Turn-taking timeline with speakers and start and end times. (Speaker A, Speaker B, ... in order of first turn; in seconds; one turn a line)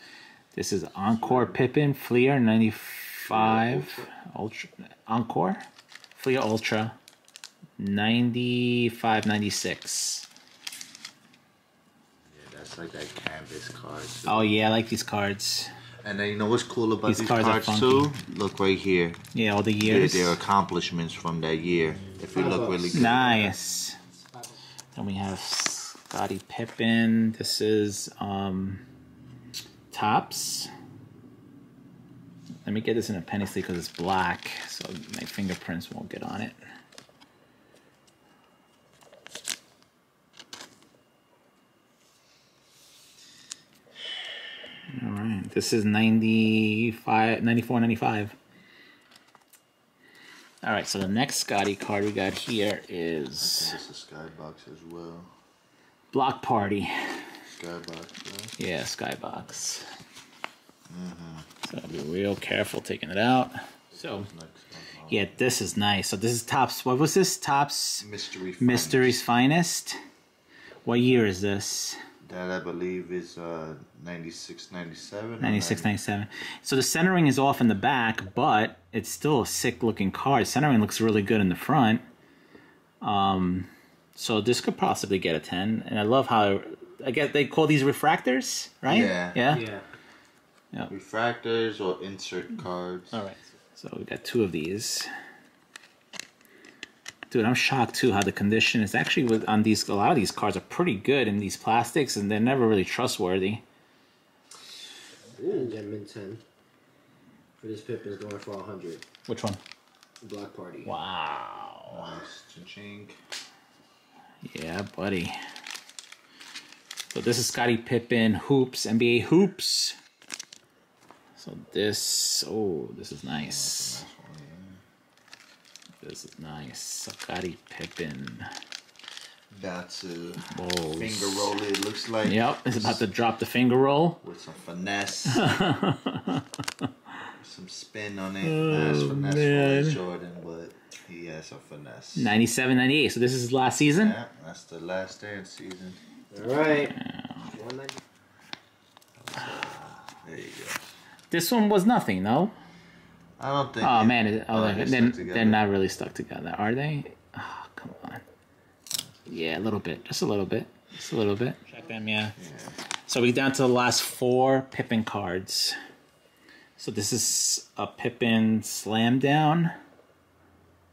Speaker A: 0.5-5.6
Speaker B: 1.2-1.6
Speaker B: 3.3-4.1
Speaker A: 6.2-7.0
Speaker A: 7.8-10.3
Speaker B: 12.3-14.5
Speaker A: 14.3-15.7
Speaker B: 16.0-19.2
Speaker A: 17.1-18.2
Speaker A: 19.3-20.4
Speaker B: 19.8-23.5
Speaker C: 22.3-23.5
Speaker A: 22.9-24.0
Speaker C: 24.2-24.5
Speaker A: 25.0-28.8
Speaker A: 29.9-30.7
Speaker A: 32.6-36.5
Speaker A: 44.9-48.4
Speaker A: 50.6-53.8
Speaker B: 53.4-55.3
Speaker A: 56.1-56.9
Speaker B: 57.5-58.6
Speaker A: 58.6-59.9
Speaker B: 60.9-61.5
Speaker A: 61.6-64.3
Speaker B: 63.9-65.5
Speaker A: 65.1-68.1
Speaker B: 68.0-69.2
Speaker A: 68.6-70.0
Speaker A: 70.8-72.0
Speaker B: 72.2-76.0
Speaker A: 75.4-82.0
Speaker A: 83.0-89.7
Speaker B: 88.9-89.4
Speaker C: 89.5-89.8
Speaker B: 90.9-93.2
Speaker A: 93.1-95.1
Speaker A: 97.3-103.6
Speaker C: 105.4-106.4
Speaker C: 107.6-109.0
Speaker A: 109.3-109.6
Speaker C: 110.2-110.9
Speaker A: 110.8-112.1
Speaker B: 111.9-113.2
Speaker A: 114.4-115.4
Speaker A: 117.1-120.0
Speaker A: 121.4-124.0
Speaker B: 123.4-124.8
Speaker A: 126.0-128.5
Speaker B: 129.5-133.0
Speaker A: 130.5-131.6
Speaker A: 132.2-134.2
Speaker B: 134.2-135.5
Speaker A: 135.3-136.5
Speaker B: 137.4-142.3
Speaker A: 138.4-140.0
Speaker A: 142.2-144.2
Speaker B: 143.9-146.0
Speaker C: 146.3-147.0
Speaker A: 146.8-147.5
Speaker C: 147.5-148.0
Speaker B: 149.2-150.8
Speaker A: 151.3-152.5
Speaker B: 153.4-155.7
Speaker A: 153.8-158.2
Speaker B: 158.9-159.5
Speaker A: 159.3-162.4
Speaker B: 162.4-162.8
Speaker A: 163.1-165.8
Speaker A: 166.8-169.7